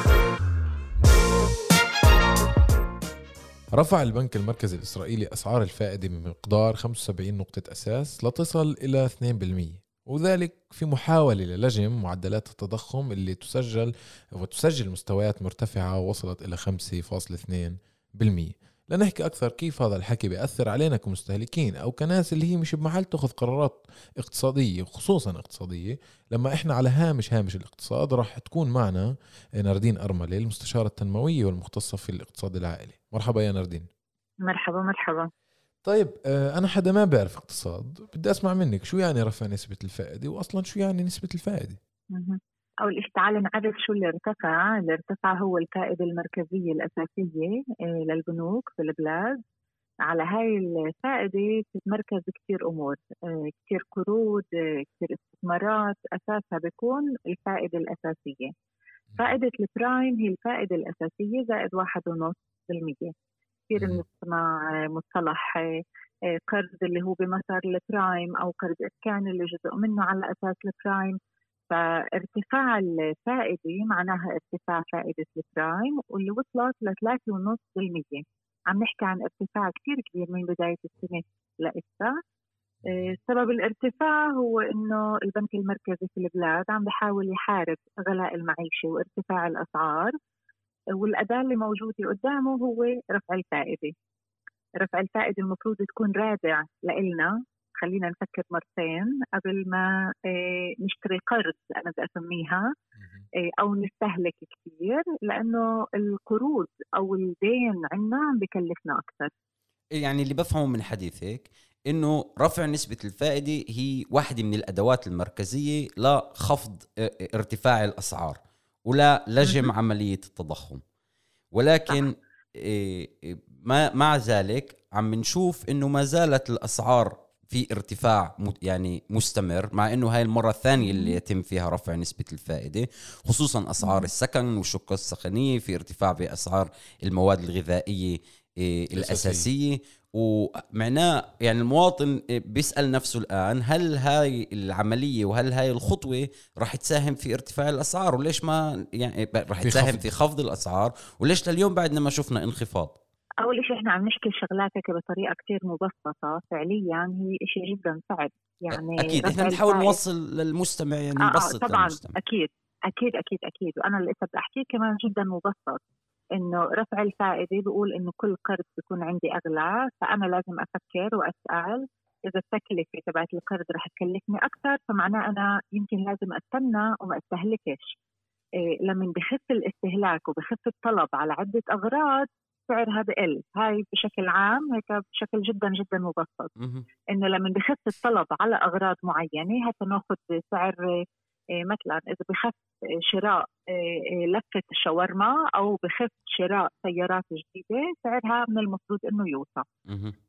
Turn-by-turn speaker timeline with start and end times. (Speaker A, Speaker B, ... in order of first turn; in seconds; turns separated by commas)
Speaker A: 3.8-33.9, Speaker B: 34.5-35.3, Speaker A: 35.9-41.8, Speaker B: 42.1-49.4, Speaker B: 50.0-58.5, Speaker B: 59.2-63.1, Speaker B: 63.7-65.6, Speaker A: 63.8-64.0, Speaker B: 66.3-71.2, Speaker B: 71.7-82.2, Speaker A: 82.9-83.2, Speaker B: 82.9-90.2, Speaker B: 91.0-93.9, Speaker B: 94.8-102.6, Speaker A: 103.0-103.2, Speaker B: 103.6-109.3, Speaker C: 110.0-120.8, Speaker B: 119.4-119.7, Speaker C: 121.5-153.0, Speaker B: 130.8-131.2, Speaker B: 133.8-134.1, Speaker A: 138.9-139.5, Speaker A: 149.6-150.1, Speaker B: 153.4-160.0, Speaker C: 158.7-162.2, Speaker B: 161.3-165.8, Speaker B: 166.4-178.0, Speaker B: 178.8-186.5, Speaker C: 186.6-186.9, Speaker B: 187.1-190.8, Speaker B: 191.7-199.7, Speaker C: 199.9-200.2